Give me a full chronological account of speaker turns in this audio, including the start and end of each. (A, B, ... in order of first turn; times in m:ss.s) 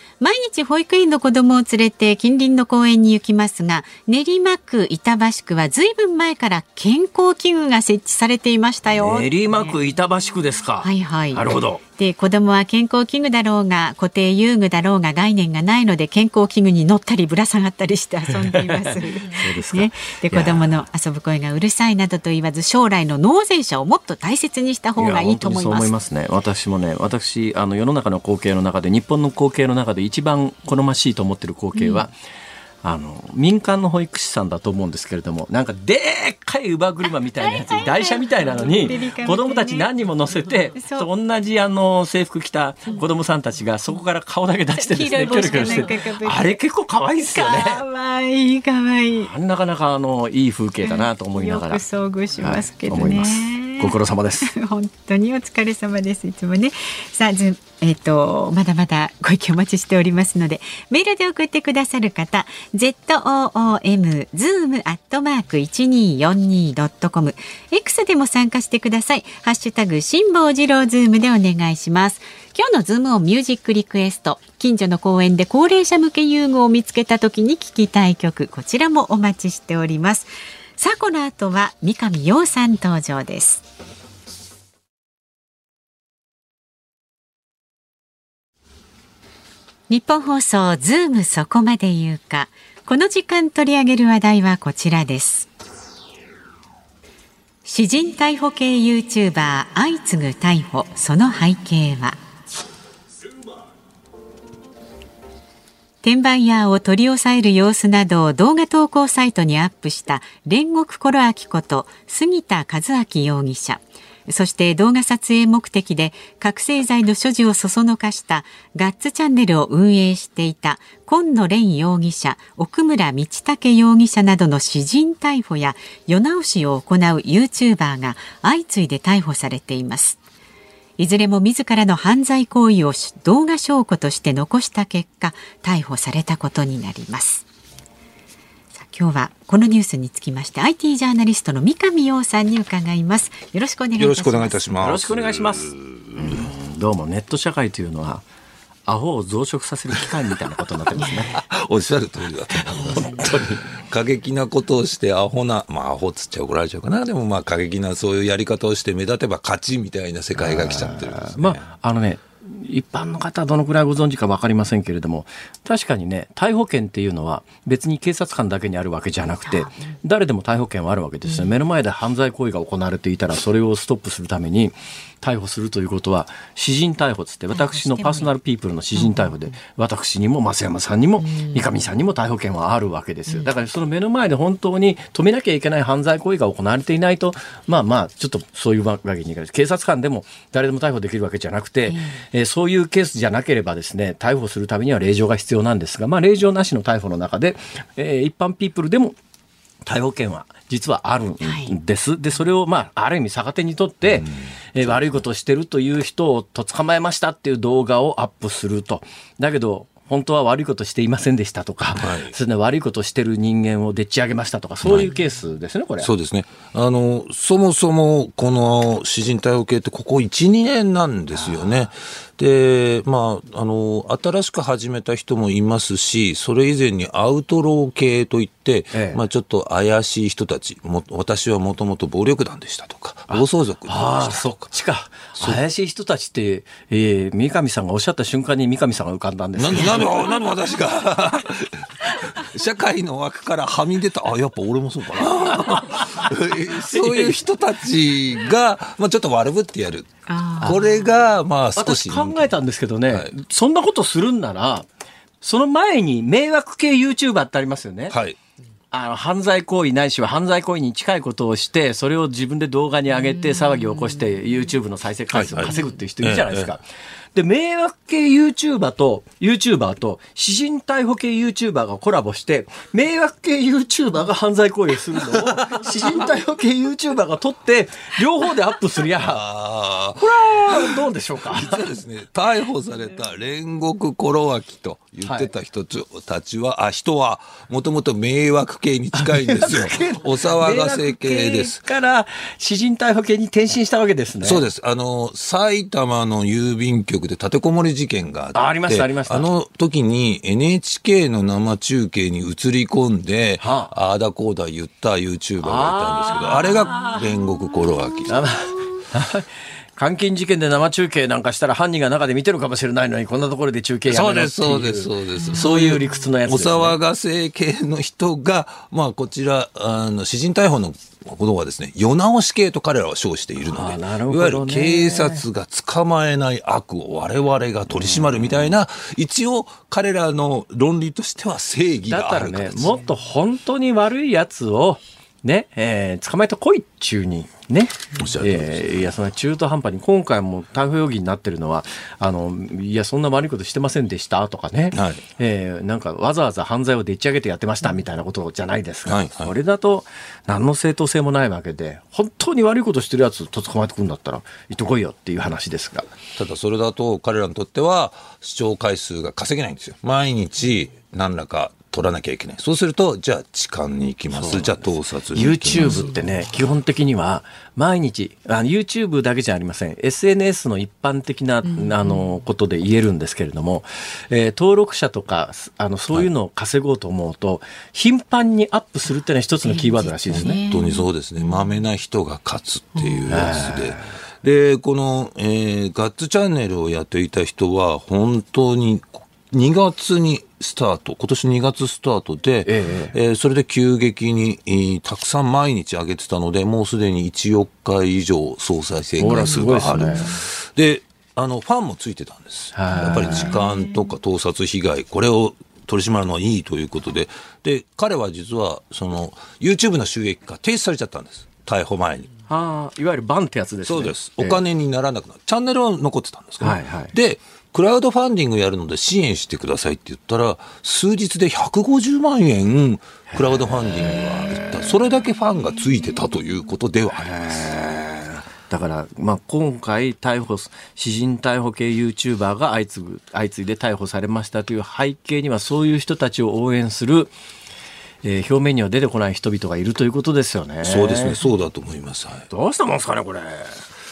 0:00.2-0:09.8 A
0:08.9-0:11.8 B
0:10.8-0:25.9 A
0:18.3-0:20.8 B
0:25.0-0:32.1 B
0:31.8-0:32.1 A
0:32.8-0:47.8 B
0:37.4-0:39.9 A
0:40.8-0:41.1 A
0:44.8-0:46.6 A
0:47.3-0:49.3 A
0:49.2-0:51.8 B
0:50.8-1:23.6 A
0:52.4-0:54.5 B
1:29.9-1:35.5 A
1:37.6-1:42.2 A
1:46.0-2:10.2 A
2:11.0-2:17.4 A
2:18.8-2:24.7 A
2:24.0-2:26.5 C
2:24.8-2:28.2 B
2:28.9-2:31.4 B
2:31.0-2:31.3 A
2:31.3-2:41.6 C
2:32.6-2:33.6 B
2:40.4-3:19.2 B
2:49.5-2:50.0 A
2:51.3-2:51.5 A
2:57.5-2:58.3 A
2:59.0-2:59.3 A
3:01.2-3:01.6 A
3:11.9-3:12.2 A
3:19.8-3:36.1 B
3:21.4-3:21.8 A
3:24.2-3:24.9 C
3:32.0-3:32.3 C
3:34.8-3:35.1 C
3:36.0-3:54.6 C
3:41.3-3:41.8 B
3:48.9-3:49.2 B
3:53.3-4:00.4 B
3:59.6-4:12.5 C
4:05.2-4:07.4 B
4:10.3-4:10.9 A
4:11.8-4:14.9 B
4:15.4-4:18.1 B
4:18.1-4:18.4 C
4:18.9-4:26.8 B
4:25.3-4:26.7 C
4:27.4-4:39.4 B
4:35.4-4:35.7 C
4:39.2-4:40.9 C
4:40.2-4:41.9 B
4:41.5-4:51.8 C
4:45.2-4:45.5 B
4:49.1-4:54.6 B
4:54.4-5:08.6 C
4:58.5-4:59.5 B
5:03.6-5:03.9 B
5:05.6-5:07.2 B
5:08.3-5:17.0 B
5:14.1-5:33.0 C
5:15.4-5:15.6 A
5:23.6-5:25.4 B
5:28.0-5:28.2 B
5:32.1-5:56.1 B
5:38.2-5:39.1 C
5:44.9-5:45.2 C
5:49.1-5:49.5 C
5:56.4-6:06.2 C
6:04.3-6:20.6 B
6:11.7-6:12.2 A
6:19.6-6:21.0 A
6:20.4-6:52.3 C
6:23.0-6:23.2 A
6:23.3-6:24.0 B
6:32.6-6:33.1 B
6:39.2-6:40.4 B
6:42.7-6:43.6 B
6:43.4-6:43.9 A
6:52.5-6:54.6 B
6:53.8-7:07.8 C
6:56.6-6:57.1 B
7:03.3-7:04.8 B
7:07.1-7:17.3 B
7:18.2-7:21.4 B
7:20.8-7:22.5 C
7:22.5-7:23.8 B